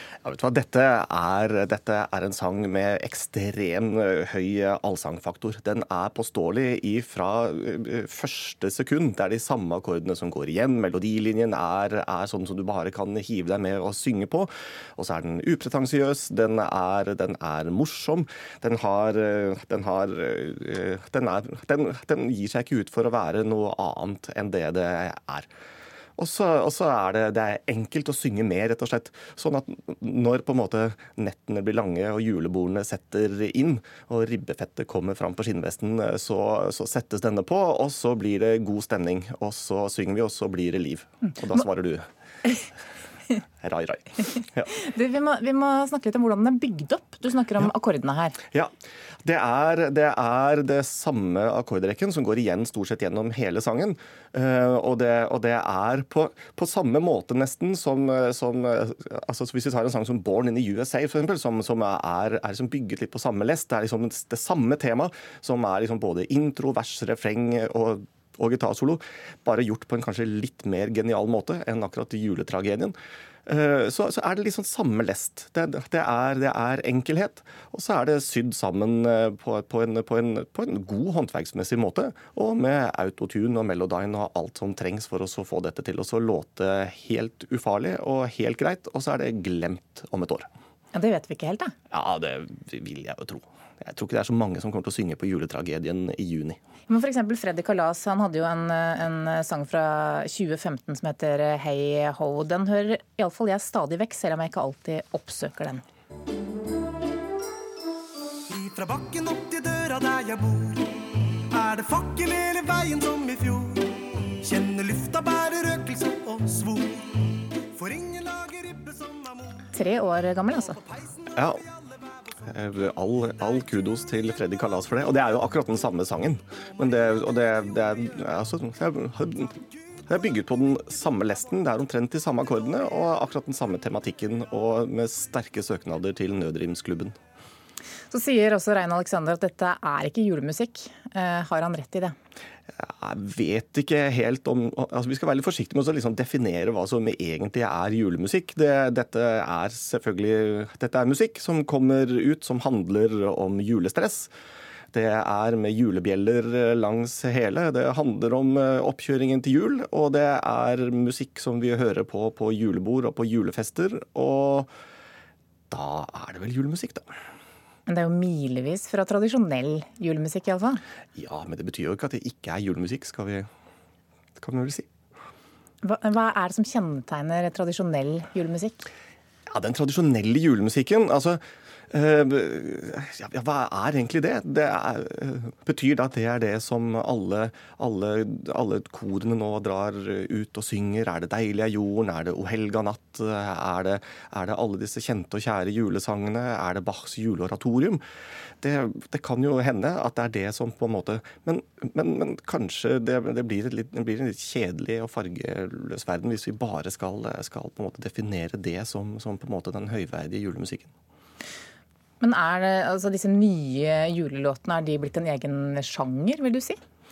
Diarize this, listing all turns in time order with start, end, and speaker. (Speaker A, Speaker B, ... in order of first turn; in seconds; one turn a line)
Speaker A: 0.2-25.5
Speaker A: 26.2-42.1
Speaker A: 43.6-44.7
Speaker B: 44.7-48.4
Speaker A: 49.2-73.0
Speaker A: 73.5-90.5
Speaker B: 90.9-91.7
Speaker A: 91.9-96.6
Speaker B: 96.9-105.8
Speaker C: 108.5-110.9
Speaker C: 111.5-117.0
Speaker C: 117.8-119.6
Speaker B: 119.7-120.8
Speaker C: 120.9-121.3
Speaker A: 122.5-129.5
Speaker A: 130.1-137.2
Speaker B: 138.1-142.2
Speaker A: 142.8-154.3
Speaker A: 154.9-164.7
Speaker A: 165.7-167.1
Speaker B: 167.9-170.8
Speaker A: 171.2-173.5
Speaker A: 174.4-174.9
Speaker B: 175.8-178.9
Speaker A: 179.5-198.0
Speaker A: 198.6-210.9
Speaker B: 212.2-216.8